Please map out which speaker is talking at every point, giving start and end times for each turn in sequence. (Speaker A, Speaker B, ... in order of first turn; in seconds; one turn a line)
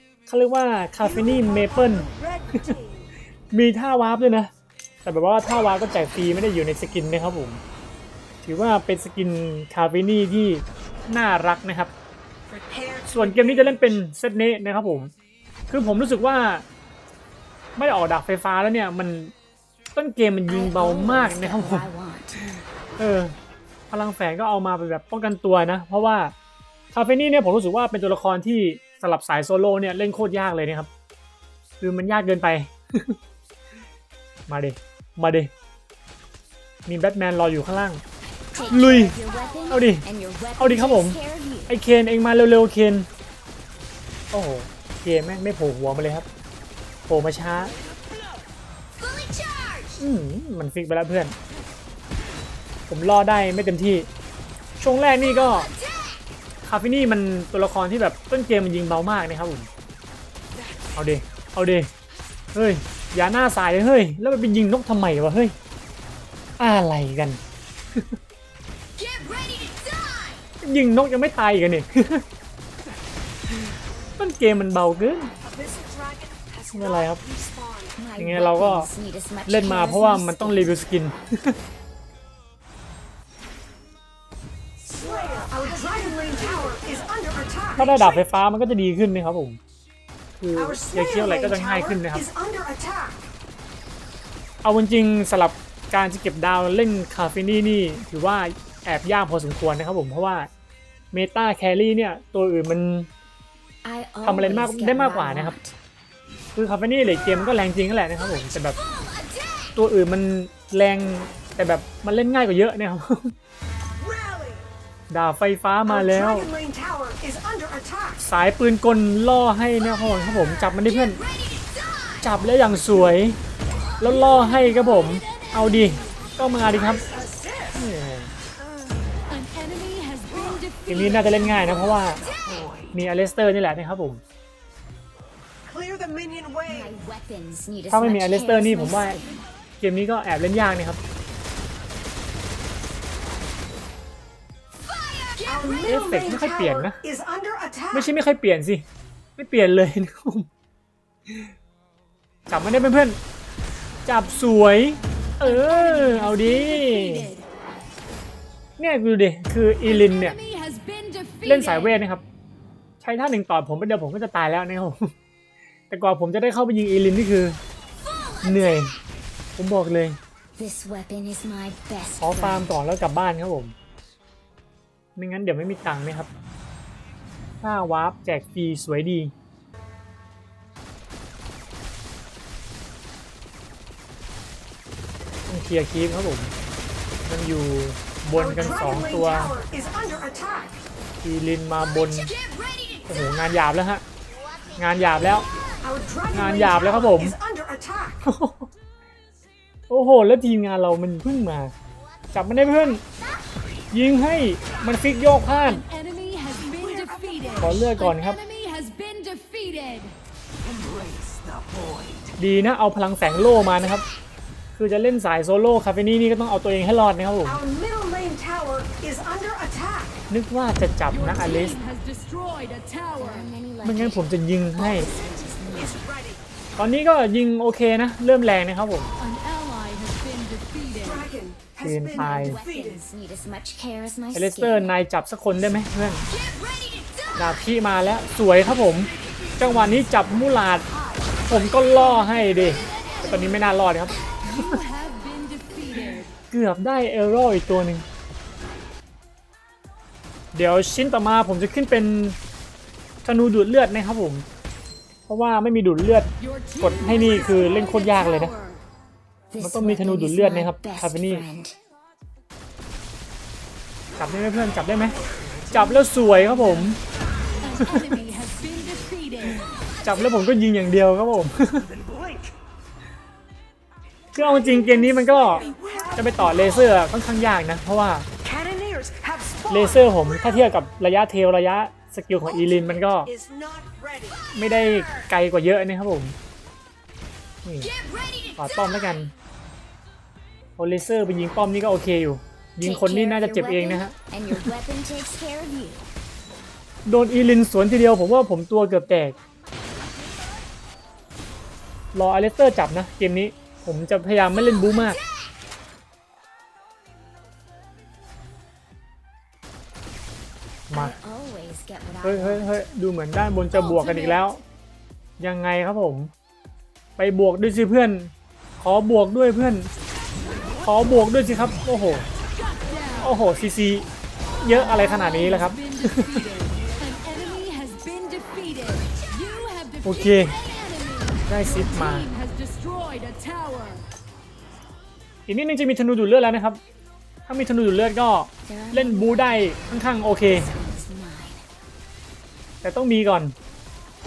Speaker A: 0.3-2.8
Speaker B: 1.0-3.1
Speaker A: 3.5-4.5
Speaker A: 5.0-7.6
Speaker A: 8.4-11.9
Speaker B: 12.7-13.8
Speaker A: 13.1-15.1
Speaker A: 15.7-16.6
Speaker A: 17.8-19.3
Speaker A: 19.9-21.9
Speaker C: 20.5-22.4
Speaker A: 22.5-23.3
Speaker A: 23.9-26.3
Speaker A: 26.9-30.9
Speaker A: 31.8-33.2
Speaker A: 34.5-35.5
Speaker A: 36.9-38.0
Speaker C: 38.5-41.7
Speaker A: 38.7-39.2
Speaker A: 39.7-40.0
Speaker A: 40.6-43.1
Speaker A: 44.3-46.3
Speaker A: 47.1-47.7
Speaker C: 49.1-49.8
Speaker A: 50.0-51.4
Speaker A: 52.9-54.1
Speaker A: 54.8-55.7
Speaker A: 56.6-59.7
Speaker A: 60.9-61.9
Speaker A: 62.5-65.5
Speaker A: 66.6-67.4
Speaker A: 70.6-72.2
Speaker A: 74.2-75.3
Speaker B: 75.4-77.9
Speaker A: 76.7-77.2
Speaker C: 78.0-80.8
Speaker A: 78.2-78.9
Speaker A: 79.5-81.6
Speaker B: 84.9-88.2
Speaker A: 87.8-89.6
Speaker A: 90.4-92.3
Speaker B: 90.5-93.3
Speaker A: 94.6-100.5
Speaker A: 101.1-103.1
Speaker C: 103.8-105.8
Speaker A: 104.2-105.6
Speaker A: 106.6-108.8
Speaker A: 109.8-113.3
Speaker B: 114.0-114.6
Speaker A: 115.1-116.5
Speaker B: 115.9-118.2
Speaker A: 118.2-121.2
Speaker A: 122.2-123.4
Speaker A: 124.0-127.1
Speaker D: 124.2-125.5
Speaker B: 127.0-127.7
Speaker A: 127.7-128.3
Speaker D: 129.3-131.5
Speaker A: 130.9-132.3
Speaker B: 132.3-132.7
Speaker A: 132.9-134.2
Speaker B: 135.7-136.8
Speaker C: 136.7-139.3
Speaker A: 137.9-139.2
Speaker A: 139.8-141.0
Speaker B: 145.4-148.1
Speaker A: 145.8-147.0
Speaker A: 147.9-148.8
Speaker A: 149.4-150.5
Speaker A: 152.5-153.2
Speaker A: 154.1-157.3
Speaker D: 155.4-157.5
Speaker A: 158.8-160.4
Speaker D: 159.9-162.0
Speaker A: 161.4-162.2
Speaker A: 163.0-165.1
Speaker A: 165.9-167.6
Speaker A: 168.4-168.9
Speaker A: 169.6-170.2
Speaker C: 170.6-172.8
Speaker A: 172.2-173.7
Speaker A: 175.2-176.3
Speaker A: 177.6-179.3
Speaker A: 185.5-186.5
Speaker A: 187.2-189.6
Speaker B: 188.3-190.8
Speaker A: 191.2-192.3
Speaker A: 193.1-194.0
Speaker A: 194.8-195.5
Speaker B: 195.8-198.2
Speaker A: 196.3-197.4
Speaker A: 198.2-198.7
Speaker A: 199.9-201.7
Speaker A: 202.3-203.0
Speaker A: 203.9-205.8
Speaker D: 205.7-210.2
Speaker B: 207.0-207.6
Speaker A: 207.6-208.4
Speaker B: 211.1-212.0
Speaker A: 212.4-214.1
Speaker A: 214.7-217.6
Speaker B: 217.5-220.2
Speaker A: 220.3-221.8
Speaker D: 221.1-223.5
Speaker C: 223.2-226.1
Speaker A: 223.8-225.1
Speaker B: 225.9-226.4
Speaker A: 226.8-229.1
Speaker D: 229.2-231.3
Speaker B: 231.0-233.0
Speaker A: 231.8-232.6
Speaker C: 232.1-234.9
Speaker A: 234.3-236.3
Speaker A: 237.4-240.9
Speaker A: 241.4-244.8
Speaker D: 242.9-243.3
Speaker D: 244.4-246.3
Speaker A: 246.1-248.1
Speaker A: 250.5-252.4
Speaker A: 253.2-254.5
Speaker A: 255.3-256.3
Speaker D: 256.4-258.8
Speaker A: 256.8-258.5
Speaker C: 259.5-261.8
Speaker A: 259.6-261.5
Speaker A: 264.2-265.2
Speaker A: 265.7-267.0
Speaker D: 267.6-269.6
Speaker A: 267.8-268.1
Speaker A: 270.0-271.9
Speaker A: 274.3-278.3
Speaker B: 275.1-276.8
Speaker B: 278.4-280.1
Speaker A: 279.7-283.3
Speaker B: 283.2-284.4
Speaker A: 284.5-286.4
Speaker A: 287.6-287.9
Speaker A: 288.6-289.3
Speaker A: 290.8-294.6
Speaker C: 292.8-296.1
Speaker A: 297.1-299.4
Speaker A: 302.1-305.2
Speaker A: 310.9-311.2
Speaker C: 310.9-312.9
Speaker A: 312.2-314.6
Speaker A: 315.4-316.3
Speaker A: 317.2-319.9
Speaker A: 320.8-322.3
Speaker D: 322.6-323.3
Speaker A: 323.2-324.1
Speaker A: 324.6-326.5
Speaker D: 324.8-334.0
Speaker A: 330.0-330.6
Speaker A: 331.5-332.3
Speaker A: 335.5-336.8
Speaker A: 337.5-340.7
Speaker C: 338.6-339.7
Speaker C: 340.5-341.7
Speaker A: 342.8-343.6